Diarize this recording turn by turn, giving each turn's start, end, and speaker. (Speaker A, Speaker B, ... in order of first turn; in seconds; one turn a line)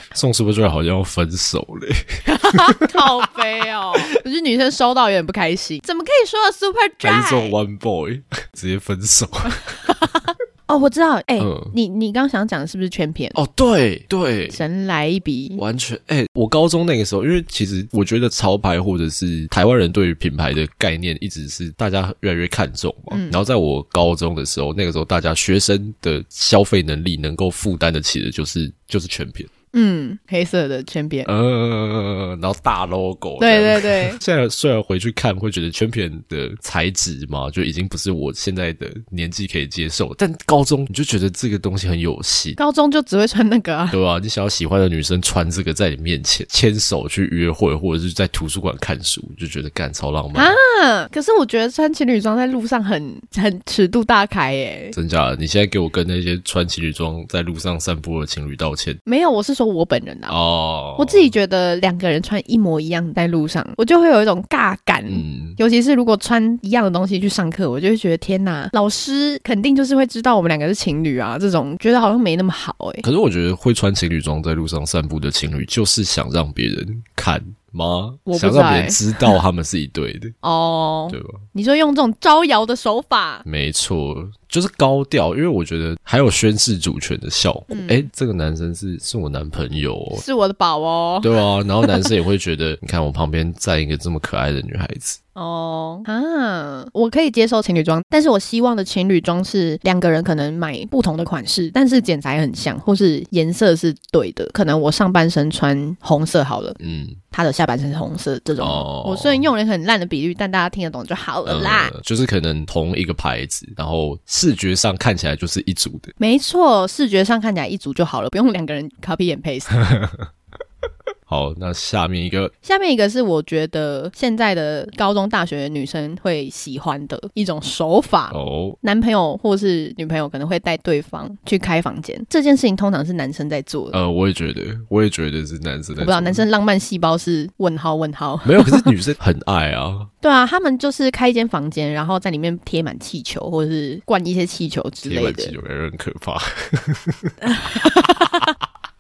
Speaker A: 0.1-3.0
Speaker B: 2.3-7.6
Speaker A: 7.0-9.8
Speaker B: 9.9-13.4
Speaker A: 11.4-11.7
Speaker A: 13.3-14.6
Speaker B: 14.5-15.6
Speaker A: 15.6-29.5
Speaker B: 23.1-23.4
Speaker B: 29.7-31.3
Speaker A: 31.2-42.6
Speaker B: 33.4-34.2
Speaker B: 42.6-44.0
Speaker A: 43.9-50.5
Speaker B: 50.3-55.0
Speaker A: 54.9-59.0
Speaker B: 59.1-60.4
Speaker A: 60.3-61.3
Speaker B: 61.0-73.0
Speaker A: 65.1-65.6
Speaker A: 73.0-80.3
Speaker B: 78.3-79.4
Speaker B: 80.4-83.4
Speaker A: 81.1-81.4
Speaker A: 83.5-90.2
Speaker B: 87.7-88.1
Speaker B: 90.1-92.1
Speaker A: 91.2-95.2
Speaker B: 95.4-106.8
Speaker A: 106.8-107.2
Speaker B: 107.3-111.9
Speaker A: 108.6-109.4
Speaker A: 111.5-116.1
Speaker B: 116.2-119.8
Speaker A: 119.8-120.3
Speaker A: 121.3-122.5
Speaker B: 122.6-134.0
Speaker A: 128.3-128.8
Speaker A: 133.9-136.4
Speaker B: 136.0-138.9
Speaker A: 138.4-140.1
Speaker B: 140.2-145.5
Speaker A: 145.0-147.3
Speaker B: 147.4-148.5